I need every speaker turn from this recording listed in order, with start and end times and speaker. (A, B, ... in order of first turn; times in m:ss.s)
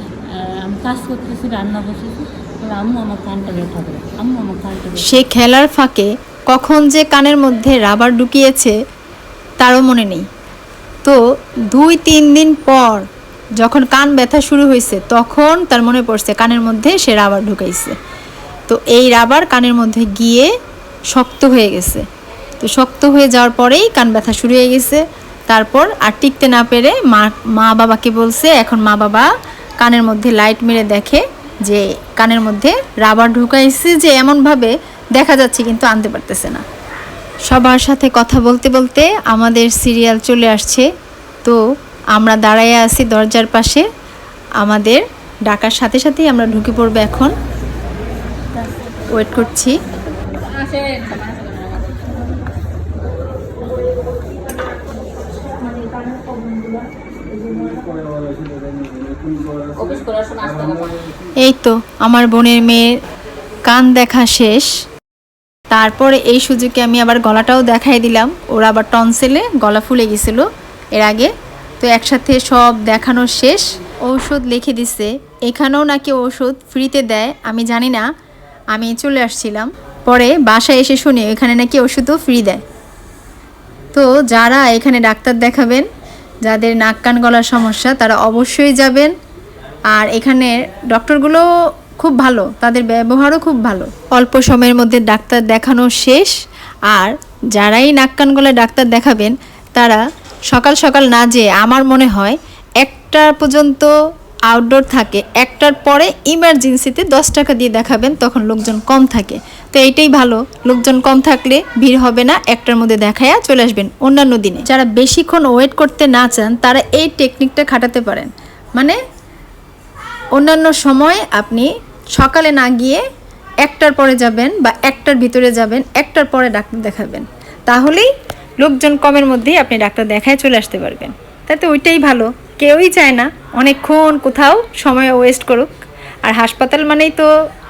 0:00.3-0:05.2 A
0:05.0-0:08.8 B
0:09.6-0:10.3 B
0:11.0-0:13.1 B
0:13.6-0:18.0 B
0:18.7-0:20.5 B
0:21.1-0:22.0 B
0:22.6-0:36.6 B
0:37.5-0:40.9 B
0:42.1-0:43.9 B
0:44.6-0:47.3 B
0:48.6-0:48.9 A
0:49.1-0:49.8 B
0:50.2-0:52.2 A
0:55.2-0:58.0 A
0:59.6-1:01.0 A
1:01.4-1:03.0 B
1:03.7-1:04.7 B
1:05.7-1:18.1 B
1:18.7-1:22.6 B
1:23.9-1:25.9 B
1:26.4-1:29.1 B
1:29.9-1:36.4 B
1:36.9-1:43.9 B
1:44.5-1:59.0 B
2:00.4-2:03.0 B
2:03.6-2:17.3 B